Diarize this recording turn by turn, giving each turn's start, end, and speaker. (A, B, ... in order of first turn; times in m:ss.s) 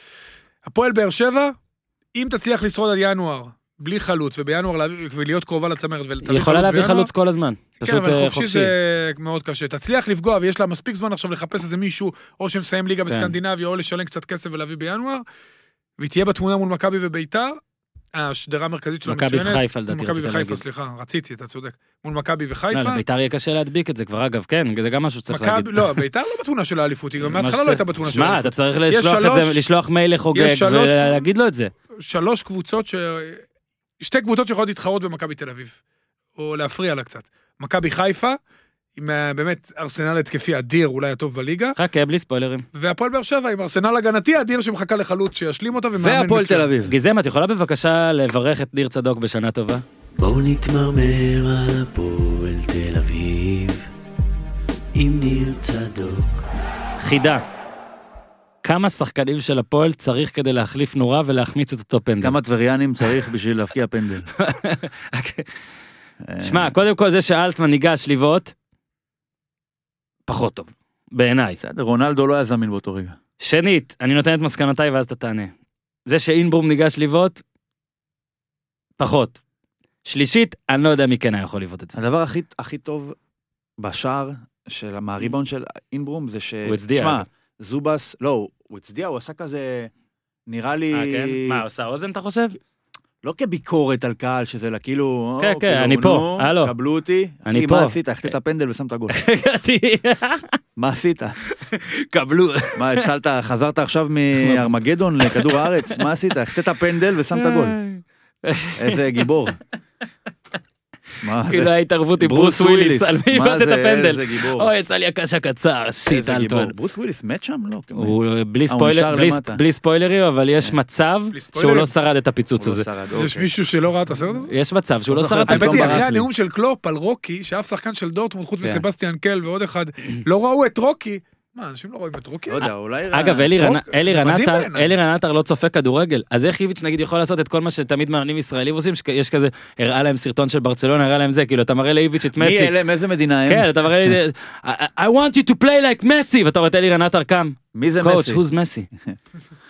0:00.6-0:01.5 A
0:02.1-0:07.1 A
0:06.2-0:08.7 B
0:07.8-0:15.2 A
0:16.0-0:17.6 A
0:18.1-0:23.0 A
0:19.0-0:20.6 B
0:22.7-0:26.0 B
0:25.3-0:29.6 A
0:27.2-0:31.7 B
0:30.3-0:31.2 A
0:32.0-0:33.4 A
0:34.0-0:35.8 A
0:36.4-0:38.4 A
0:39.0-0:41.8 A
0:41.8-0:42.6 B
0:42.7-0:46.7 A
0:46.0-0:46.9 C
0:46.9-0:49.8 B
0:50.2-0:53.9 D
0:54.9-0:56.4 D
0:57.0-0:57.4 B
0:58.6-1:02.4 B
1:02.2-1:04.3 C
1:04.4-1:05.5 B
1:06.2-1:06.7 C
1:06.4-1:08.5 B
1:10.3-1:11.6 B
1:11.6-1:13.2 C
1:13.4-1:15.5 B
1:16.0-1:17.4 B
1:19.0-1:19.4 B
1:20.0-1:22.0 B
1:21.9-1:23.2 C
1:23.8-1:29.9 C
1:26.6-1:27.2 B
1:30.5-1:31.6 C
1:30.9-1:32.6 B
1:33.2-1:39.2 C
1:35.4-1:36.7 B
1:37.4-1:38.0 B
1:39.1-1:40.6 B
1:40.8-1:41.4 C
1:41.6-1:43.0 B
1:42.8-1:47.8 C
1:44.4-1:45.9 B
1:47.3-1:49.3 B
1:48.8-1:49.6 C
1:51.2-1:54.7 C
1:51.4-1:56.7 B
1:56.1-1:58.2 C
1:58.0-2:02.9 B
1:58.7-1:59.6 C
2:01.3-2:01.9 A
2:02.6-2:03.5 C
2:03.1-2:04.5 A
2:04.5-2:06.0 B
2:05.1-2:06.2 C
2:05.5-2:12.7 A
2:12.5-2:13.5 C
2:13.1-2:22.7 B
2:13.6-2:14.9 A
2:22.4-2:24.2 C
2:23.4-2:28.9 B
2:27.7-2:28.4 C